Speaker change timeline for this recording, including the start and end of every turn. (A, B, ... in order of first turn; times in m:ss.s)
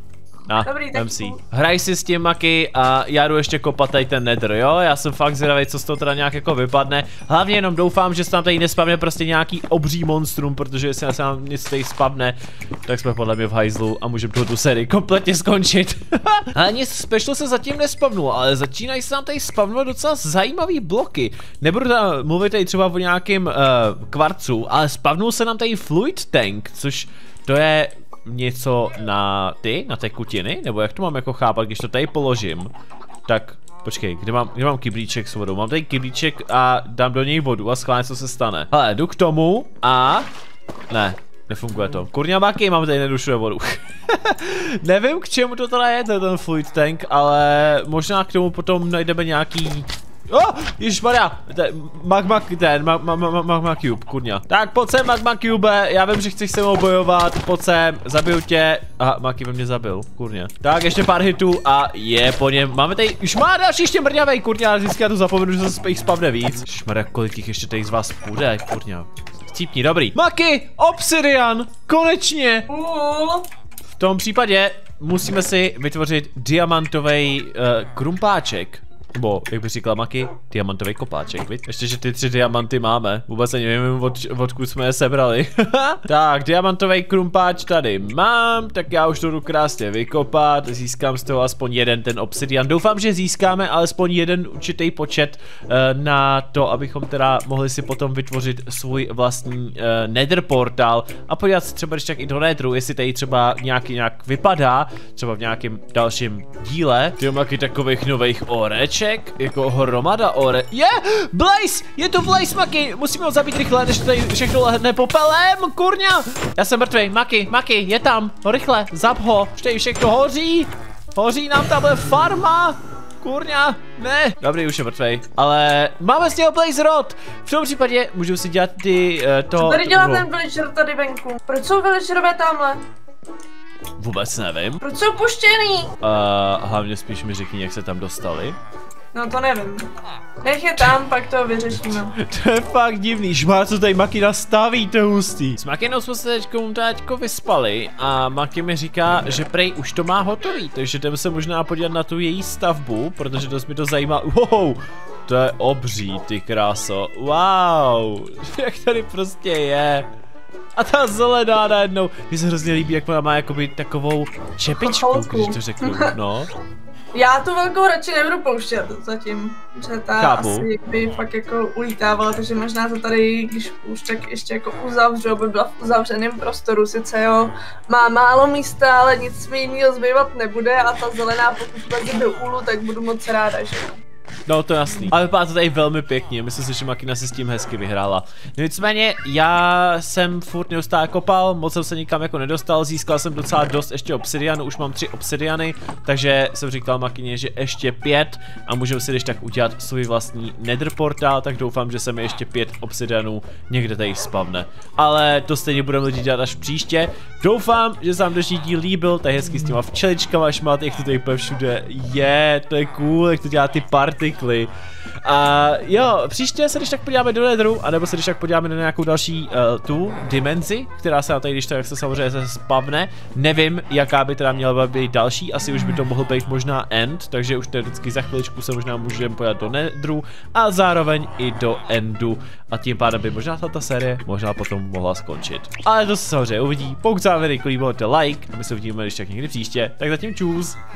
0:00.5-0:32.7 A
0:00.6-0:01.4 B
0:33.3-0:40.3 A
0:40.9-1:12.7 A
1:12.7-1:13.5 B
1:14.0-2:10.3 A
2:09.6-2:12.8 B
2:14.0-2:14.8 A
2:14.8-2:16.0 B
2:16.0-2:18.6 A
2:19.1-2:22.2 B
2:21.9-2:40.1 A
2:40.8-2:46.5 A
2:44.8-2:46.1 B
2:47.1-3:04.0 B
2:50.2-2:50.7 A
3:04.5-3:34.7 A
3:35.2-4:00.8 A